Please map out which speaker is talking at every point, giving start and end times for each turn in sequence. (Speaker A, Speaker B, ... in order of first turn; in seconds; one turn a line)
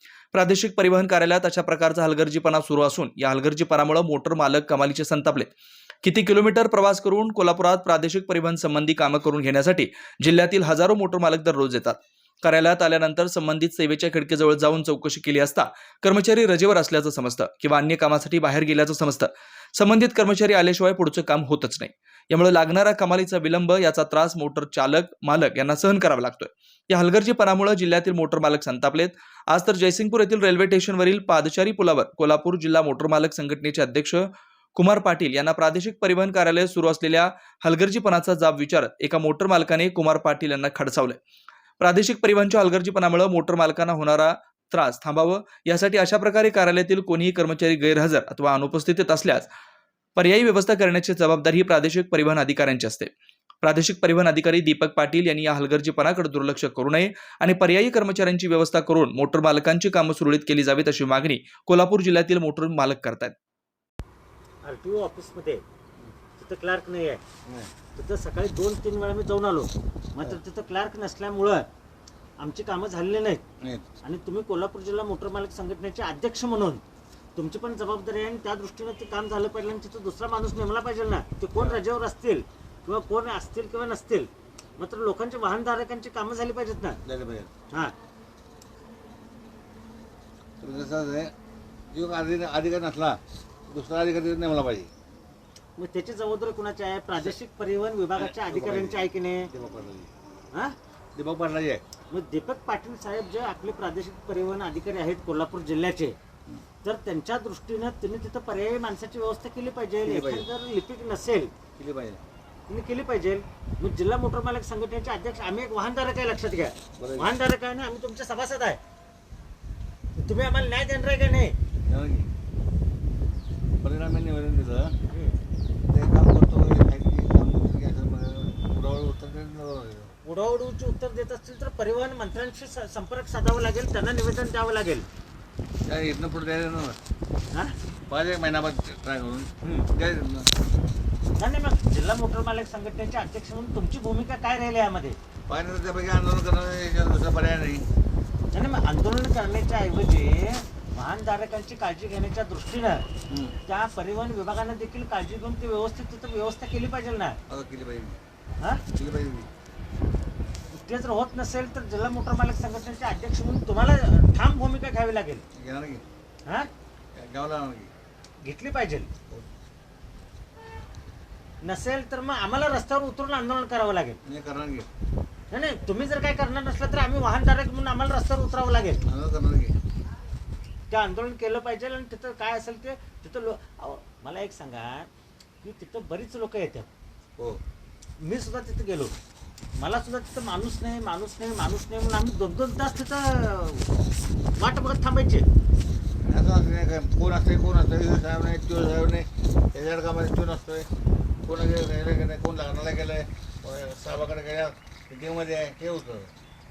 Speaker A: 0.3-5.5
Speaker A: 6.0-41.2
Speaker A: 41.8-49.5
Speaker A: 50.1-63.3
Speaker B: 64.6-65.6
Speaker B: 66.4-67.2
Speaker C: 67.5-67.7
Speaker B: 67.9-71.6
Speaker B: 72.4-73.4
Speaker C: 73.6-73.8
Speaker B: 74.0-76.8
Speaker B: 77.3-87.0
Speaker C: 81.5-81.8
Speaker C: 87.0-87.5
Speaker C: 90.6-91.3
Speaker C: 91.9-94.9
Speaker B: 95.8-99.5
Speaker C: 98.2-100.1
Speaker C: 101.1-101.8
Speaker B: 102.1-106.2
Speaker B: 106.8-111.5
Speaker C: 110.0-110.5
Speaker C: 111.8-112.2
Speaker B: 112.7-118.8
Speaker C: 117.0-117.3
Speaker B: 120.1-121.5
Speaker C: 121.8-122.3
Speaker C: 123.8-125.0
Speaker B: 125.1-125.4
Speaker C: 125.9-130.1
Speaker B: 130.2-135.1
Speaker C: 135.8-137.0
Speaker C: 138.1-140.5
Speaker B: 139.6-139.9
Speaker B: 141.4-145.2
Speaker C: 145.5-147.9
Speaker B: 148.5-153.1
Speaker C: 153.3-153.6
Speaker B: 153.6-157.4
Speaker C: 157.5-158.2
Speaker C: 158.9-159.5
Speaker B: 160.7-165.4
Speaker C: 165.5-166.0
Speaker C: 167.1-167.9
Speaker B: 168.4-169.1
Speaker B: 171.6-174.2
Speaker C: 174.2-174.9
Speaker B: 175.5-179.0
Speaker C: 179.0-179.8
Speaker B: 180.9-185.1
Speaker B: 185.6-186.9
Speaker B: 188.2-189.1
Speaker B: 189.8-193.9
Speaker B: 194.6-195.5
Speaker C: 196.2-200.9
Speaker C: 201.4-206.3